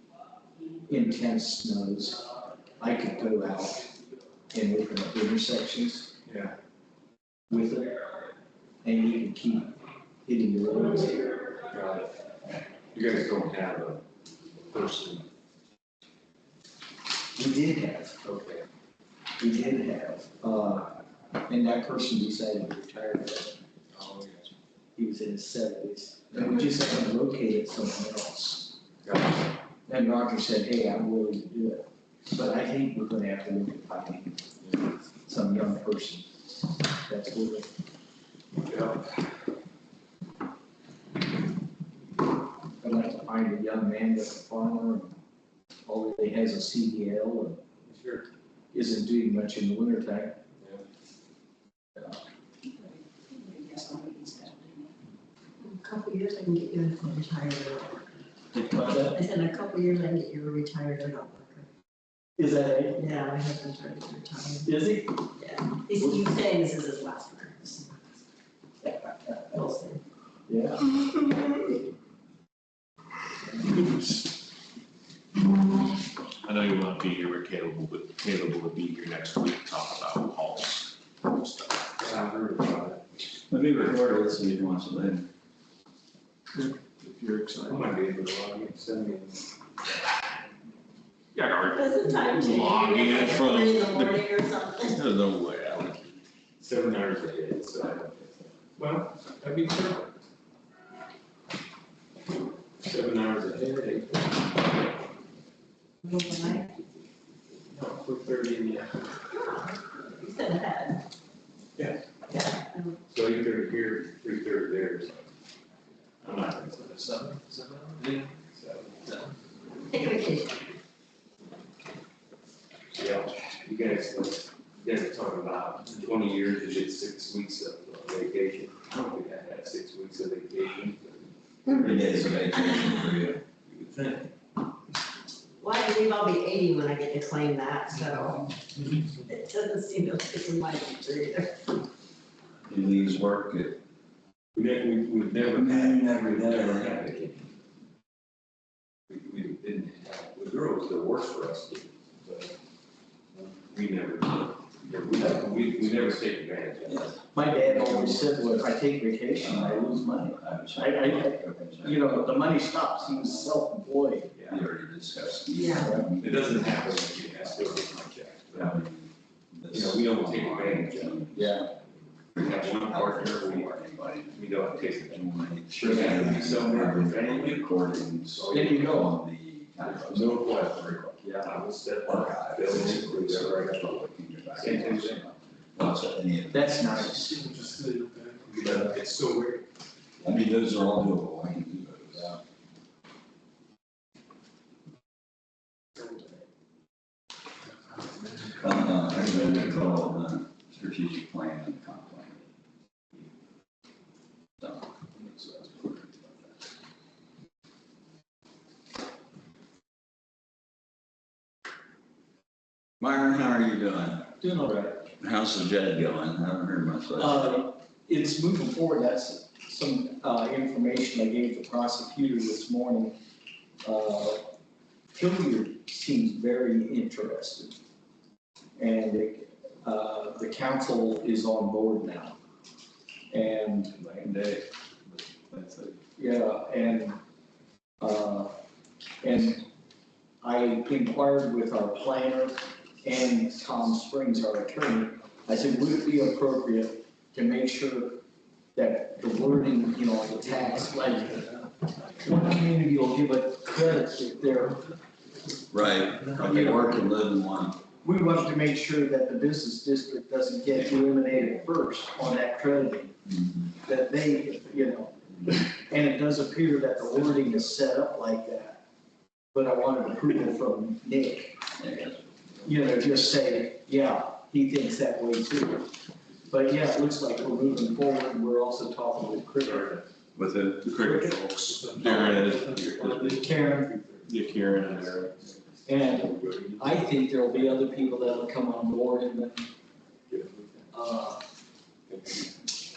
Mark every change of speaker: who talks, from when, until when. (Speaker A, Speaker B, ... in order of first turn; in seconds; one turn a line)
Speaker A: 0.9-2.2
Speaker A: 2.8-3.9
Speaker A: 4.5-6.1
Speaker B: 6.3-6.5
Speaker A: 7.5-7.9
Speaker A: 8.8-11.3
Speaker B: 11.7-12.1
Speaker B: 12.9-14.0
Speaker B: 14.7-15.3
Speaker A: 17.4-18.2
Speaker B: 18.2-18.7
Speaker A: 19.4-23.6
Speaker B: 23.9-24.6
Speaker A: 25.0-28.8
Speaker B: 29.1-29.4
Speaker A: 29.9-34.4
Speaker A: 35.3-37.7
Speaker B: 38.6-39.1
Speaker A: 42.8-45.2
Speaker A: 45.9-47.6
Speaker B: 47.9-48.3
Speaker A: 48.7-50.4
Speaker C: 53.6-54.5
Speaker C: 55.6-58.3
Speaker A: 58.5-59.2
Speaker C: 58.8-61.7
Speaker A: 62.4-63.0
Speaker C: 63.0-64.8
Speaker A: 64.7-65.2
Speaker C: 65.3-68.0
Speaker C: 69.5-70.0
Speaker A: 70.5-70.9
Speaker D: 76.4-82.0
Speaker B: 82.0-83.0
Speaker E: 83.5-85.3
Speaker D: 86.6-87.9
Speaker B: 87.6-89.5
Speaker D: 91.3-94.2
Speaker C: 91.6-95.1
Speaker D: 94.9-96.1
Speaker B: 96.6-100.2
Speaker B: 102.8-104.7
Speaker C: 106.0-106.8
Speaker B: 107.7-109.2
Speaker C: 109.3-111.0
Speaker C: 112.3-113.0
Speaker B: 113.1-115.2
Speaker B: 116.2-119.3
Speaker C: 119.9-120.6
Speaker B: 122.9-132.6
Speaker E: 131.7-133.4
Speaker C: 132.8-133.2
Speaker B: 133.7-134.3
Speaker C: 135.6-141.8
Speaker E: 142.7-143.8
Speaker B: 144.6-147.4
Speaker E: 145.5-147.0
Speaker B: 149.1-152.6
Speaker B: 153.3-157.2
Speaker A: 157.3-164.3
Speaker E: 157.8-158.2
Speaker E: 159.4-162.4
Speaker E: 163.2-163.4
Speaker E: 164.5-171.7
Speaker C: 165.5-166.0
Speaker A: 165.8-166.1
Speaker B: 166.2-168.8
Speaker B: 169.7-171.6
Speaker A: 171.4-171.7
Speaker B: 172.3-179.1
Speaker E: 172.3-187.4
Speaker A: 178.5-179.1
Speaker B: 179.8-184.0
Speaker B: 184.5-185.3
Speaker A: 186.5-187.5
Speaker D: 187.6-188.8
Speaker B: 188.5-189.7
Speaker E: 190.2-192.4
Speaker E: 198.5-202.4
Speaker E: 204.6-206.5
Speaker E: 213.0-214.4
Speaker A: 214.4-215.0
Speaker E: 215.2-217.5
Speaker A: 217.2-223.2
Speaker A: 223.8-224.5
Speaker A: 225.1-227.8
Speaker A: 228.8-232.4
Speaker A: 233.3-234.2
Speaker A: 236.2-237.2
Speaker A: 238.0-238.5
Speaker A: 239.2-239.7
Speaker A: 240.4-248.2
Speaker A: 248.8-251.4
Speaker A: 252.2-254.8
Speaker E: 255.7-257.8
Speaker A: 256.4-256.9
Speaker A: 258.0-263.2
Speaker A: 263.8-268.8
Speaker A: 269.5-271.6
Speaker E: 271.8-272.2
Speaker A: 272.6-275.9
Speaker A: 276.5-280.1
Speaker E: 280.4-281.4
Speaker D: 280.8-283.4
Speaker B: 281.0-287.0
Speaker A: 283.3-283.9
Speaker D: 284.3-285.4
Speaker A: 285.9-289.7
Speaker B: 290.3-290.9
Speaker A: 290.9-291.4
Speaker B: 292.1-292.5